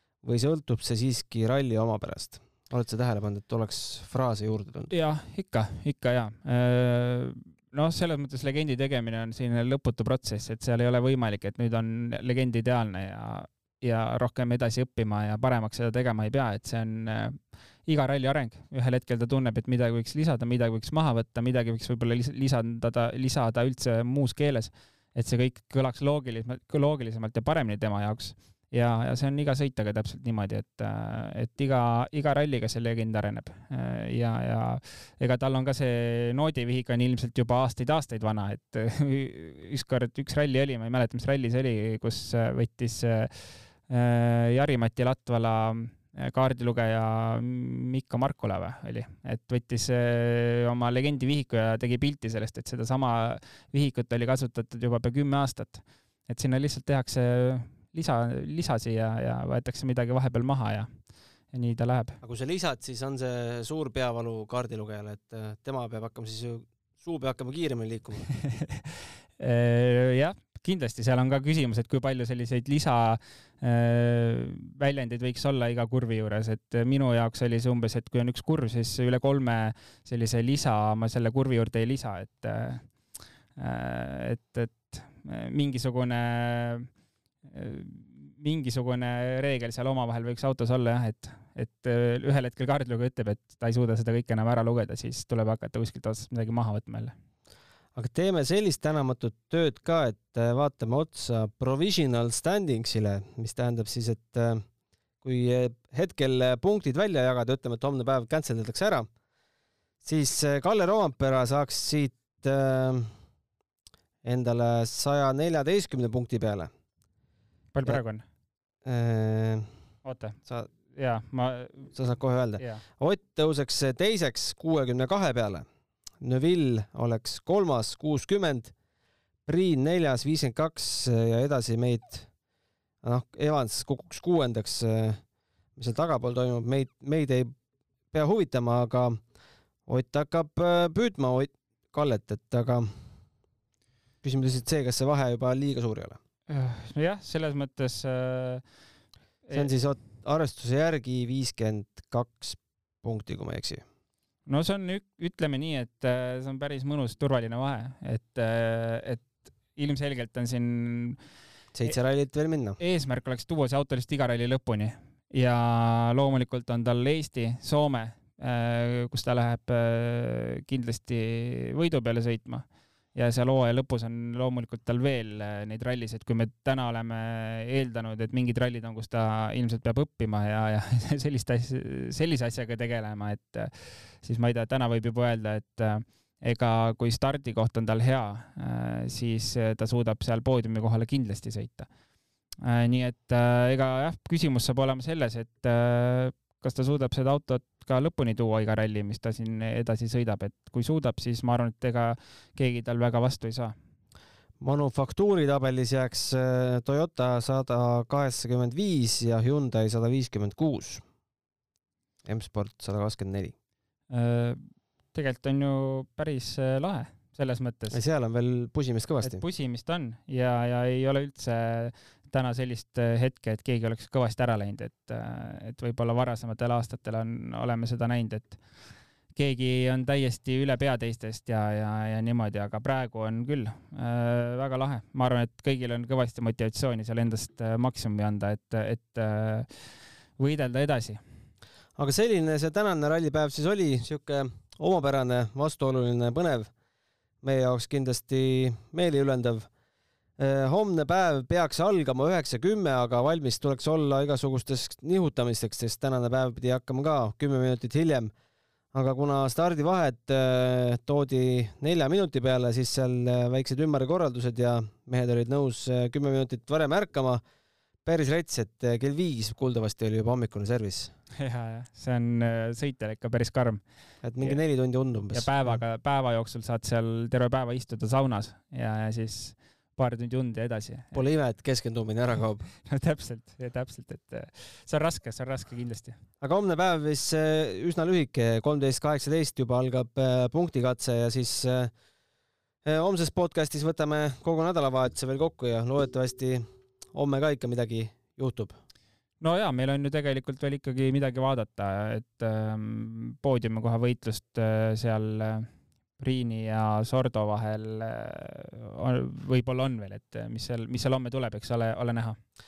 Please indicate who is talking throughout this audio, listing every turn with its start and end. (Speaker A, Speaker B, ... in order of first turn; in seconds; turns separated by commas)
Speaker A: 0.2-4.9, Speaker B: 4.9-60.9, Speaker B: 61.5-62.2, Speaker A: 62.2-68.3, Speaker B: 68.4-82.9, Speaker B: 83.5-86.9, Speaker B: 87.5-97.1, Speaker A: 97.9-104.6, Speaker A: 105.2-109.1, Speaker A: 110.0-113.1, Speaker A: 114.2-116.7, Speaker B: 117.7-118.2, Speaker A: 118.8-119.7, Speaker B: 120.0-120.4, Speaker B: 120.9-121.9, Speaker A: 121.9-125.7, Speaker B: 122.6-122.8, Speaker A: 126.2-128.7, Speaker A: 129.4-132.3, Speaker A: 133.0-135.2, Speaker A: 135.8-137.5, Speaker A: 138.1-139.2, Speaker A: 139.9-142.9, Speaker A: 144.2-146.2, Speaker B: 146.5-148.6, Speaker B: 149.4-149.7, Speaker A: 149.5-153.8, Speaker B: 154.5-161.2, Speaker A: 161.7-162.8, Speaker B: 162.8-191.9, Speaker B: 192.6-203.8, Speaker A: 204.6-211.0, Speaker A: 212.2-213.5, Speaker B: 214.1-218.0, Speaker A: 217.9-219.4, Speaker B: 219.2-228.6, Speaker B: 229.3-239.7, Speaker B: 240.4-241.2, Speaker A: 241.9-246.7, Speaker A: 247.4-249.7, Speaker A: 250.4-258.3, Speaker A: 258.9-267.4, Speaker A: 268.0-271.1, Speaker B: 271.4-273.8, Speaker A: 274.2-275.8, Speaker B: 275.3-281.2, Speaker A: 281.1-282.7, Speaker B: 282.8-286.2, Speaker A: 286.4-291.9, Speaker A: 292.8-298.8, Speaker B: 299.4-312.4